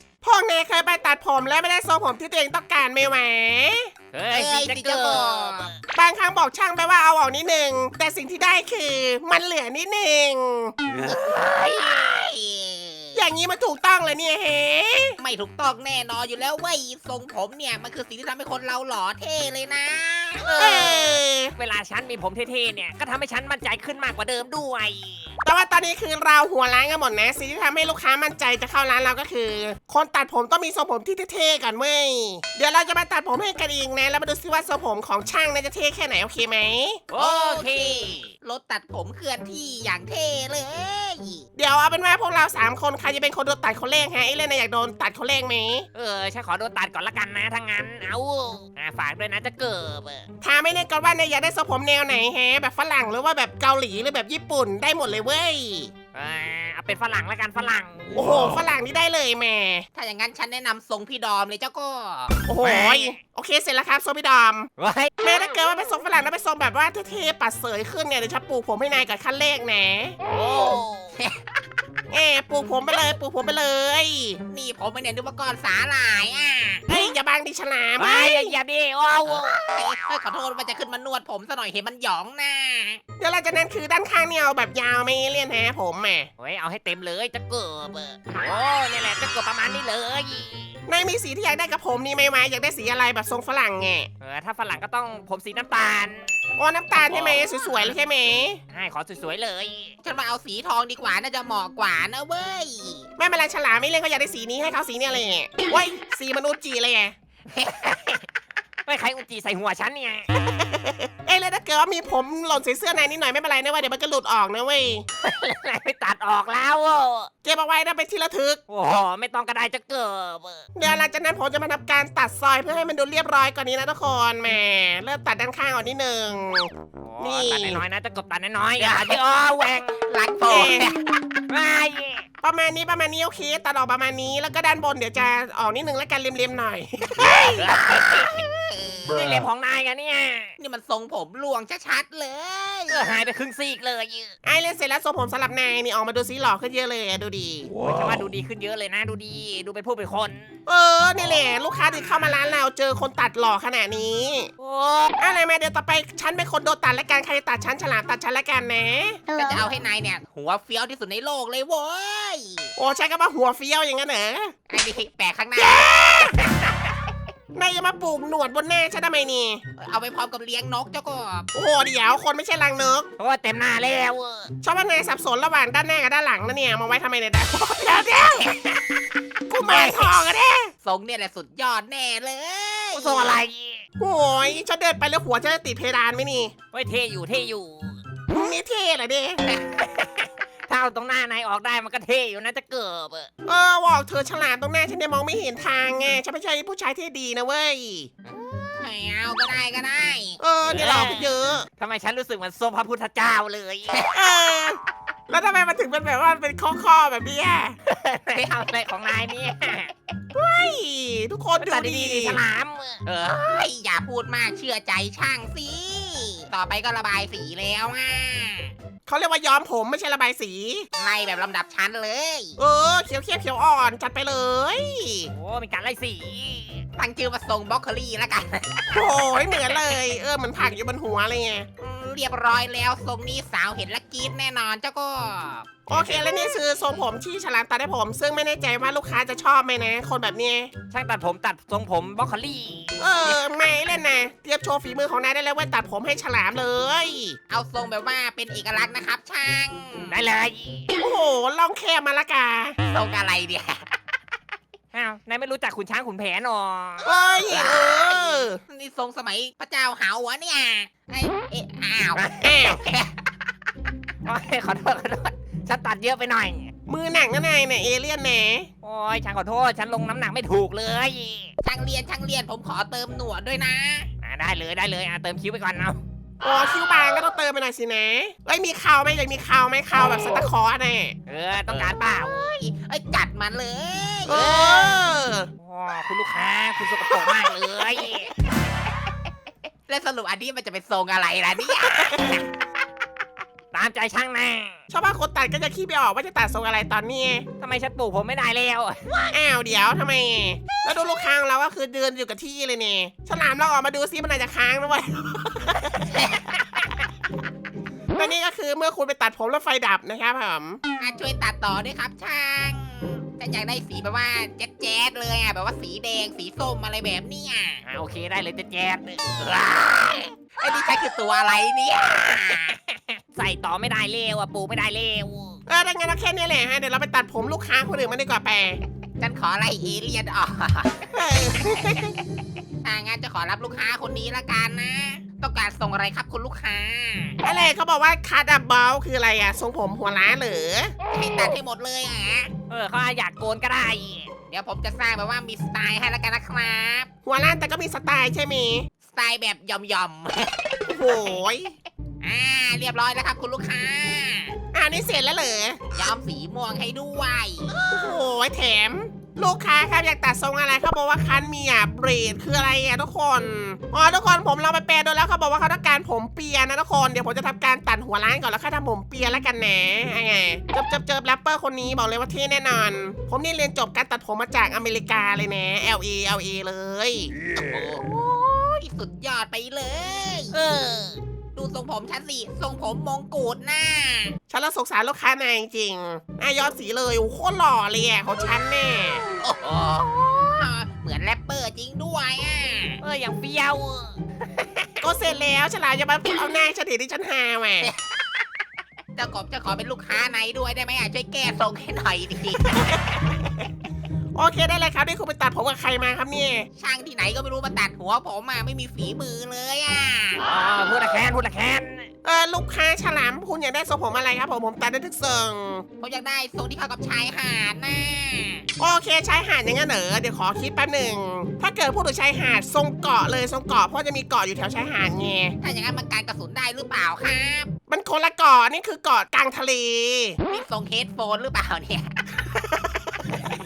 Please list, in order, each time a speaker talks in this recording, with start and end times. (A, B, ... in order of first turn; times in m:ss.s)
0:00.2-0:03.9 A
0:04.1-0:05.8 B
0:04.3-0:05.7 C
0:06.0-0:10.7 A
0:10.9-0:11.4 B
0:11.0-0:13.2 C
0:13.1-0:15.2 A
0:15.2-0:20.9 C
0:20.5-0:25.3 B
0:20.6-0:21.5 A
0:25.4-0:37.0 A
0:37.1-0:38.3 B
0:37.2-0:41.4 C
0:41.6-0:45.9 A
0:45.9-0:50.3 B
0:50.4-0:55.9 A
0:56.1-0:58.6 B
0:58.1-0:59.8 A
0:59.9-1:02.4 C
1:02.4-1:10.2 A
1:02.6-1:03.2 B
1:04.8-1:05.1 B
1:10.2-1:11.2 B
1:12.1-1:14.4 A
1:14.5-1:16.8 C
1:16.9-1:18.6 A
1:18.0-1:19.7 B
1:19.3-1:23.0 C
1:23.2-1:26.3 A
1:26.4-1:30.8 B
1:30.9-1:34.1 A
1:34.2-1:36.3 B
1:36.6-1:38.6 A
1:37.1-1:37.4 B
1:38.7-1:39.9 B
1:40.0-1:43.1 C
1:43.2-1:47.1 A
1:47.5-1:48.2 B
1:48.8-1:50.3 B
1:51.2-1:55.0 A
1:55.2-1:57.3 B
1:57.4-1:58.6 A
1:58.7-2:00.6 B
2:00.7-2:07.8 A
2:07.0-2:10.0 B
2:08.8-2:09.2 C
2:10.0-2:11.1 C
2:10.5-2:10.9 A
2:11.5-2:12.3 B
2:12.4-2:17.7 A
2:17.6-2:18.4 B
2:17.9-2:19.3 C
2:19.1-2:20.6 B
2:20.6-2:23.2 C
2:22.9-2:24.3 B
2:24.4-2:27.7 A
2:27.8-2:30.5 B
2:30.7-2:34.5 A
2:34.6-2:35.2 B
2:35.2-2:39.2 A
2:39.3-2:42.7 C
2:42.8-2:44.5 A
2:44.7-2:46.4 C
2:45.6-2:46.4 A
2:47.6-2:49.6 A
2:49.8-2:51.5 C
2:51.5-2:53.1 A
2:53.2-2:54.5 B
2:54.6-2:58.6 A
2:59.5-3:00.7 A
2:59.6-3:00.2 B
3:00.8-3:03.4 C
3:02.9-3:03.8 B
3:04.0-3:06.5 A
3:06.7-3:08.0 B
3:08.3-3:09.4 A
3:09.5-3:13.3 B
3:13.4-3:18.1 A
3:18.3-3:20.4 C
3:20.4-3:21.7 A
3:20.7-3:24.1 B
3:24.1-3:27.8 A
3:27.8-3:29.9 B
3:30.3-3:32.4 A
3:31.6-3:33.0 B
3:33.1-3:38.7 C
3:39.1-3:40.9 A
3:41.0-3:42.6 C
3:42.6-3:45.3 A
3:45.3-3:46.8 B
3:47.0-3:49.1 C
3:48.9-3:51.7 A
3:51.8-3:55.8 C
3:55.9-4:00.7 A
3:55.9-3:56.2 B
3:56.6-3:57.0 C
4:00.9-4:03.0 B
4:03.0-4:07.4 A
4:07.5-4:10.2 C
4:10.1-4:10.9 B
4:11.0-4:12.8 A
4:12.8-4:13.8 C
4:14.9-4:17.1 B
4:17.0-4:18.6 A
4:17.4-4:23.1 C
4:22.1-4:22.8 B
4:22.4-4:22.8 A
4:24.2-4:26.7 B
4:26.9-4:28.7 A
4:28.8-4:31.5 B
4:31.6-4:34.1 C
4:34.2-4:36.0 B
4:36.4-4:41.1 A
4:41.3-4:42.5 B
4:41.7-4:45.0 C
4:44.2-4:45.5 A
4:45.6-4:48.3 B
4:49.9-4:52.4 C
4:53.7-4:54.8 B
4:54.9-4:57.5 A
4:57.6-4:59.3 B
4:59.3-5:06.2 A
5:06.1-5:06.4 C
5:06.5-5:06.8 B
5:08.1-5:10.8 A
5:11.0-5:17.8 C
5:17.8-5:20.9 B
5:20.6-5:22.8 C
5:22.6-5:25.6 B
5:25.7-5:28.8 A
5:29.2-5:32.2 C
5:31.1-5:32.2 A
5:32.8-5:37.4 C
5:37.4-5:40.9 A
5:41.1-5:42.5 C
5:42.7-5:44.3 B
5:44.5-5:47.1 C
5:47.2-5:48.9 A
5:49.0-5:51.4 C
5:50.9-5:51.8 A
5:52.2-5:54.6 C
5:54.7-5:55.8 A
5:55.9-5:58.2 C
5:57.8-6:17.3 A
6:17.5-6:20.6 C
6:20.5-6:21.2 B
6:21.5-6:24.4 C
6:24.5-6:29.2 A
6:29.4-6:33.0 C
6:33.0-6:35.0 B
6:35.0-6:37.9 A
6:37.8-6:38.2 C
6:39.2-6:42.8 C
6:42.7-6:43.0 A
6:44.3-6:46.7 A
6:46.8-6:50.4 C
6:50.4-6:52.1 B
6:52.2-6:55.8 A
6:56.0-6:58.6 C
6:58.8-7:05.5 A
7:05.6-7:07.7 C
7:07.9-7:10.4 A
7:10.5-7:12.4 C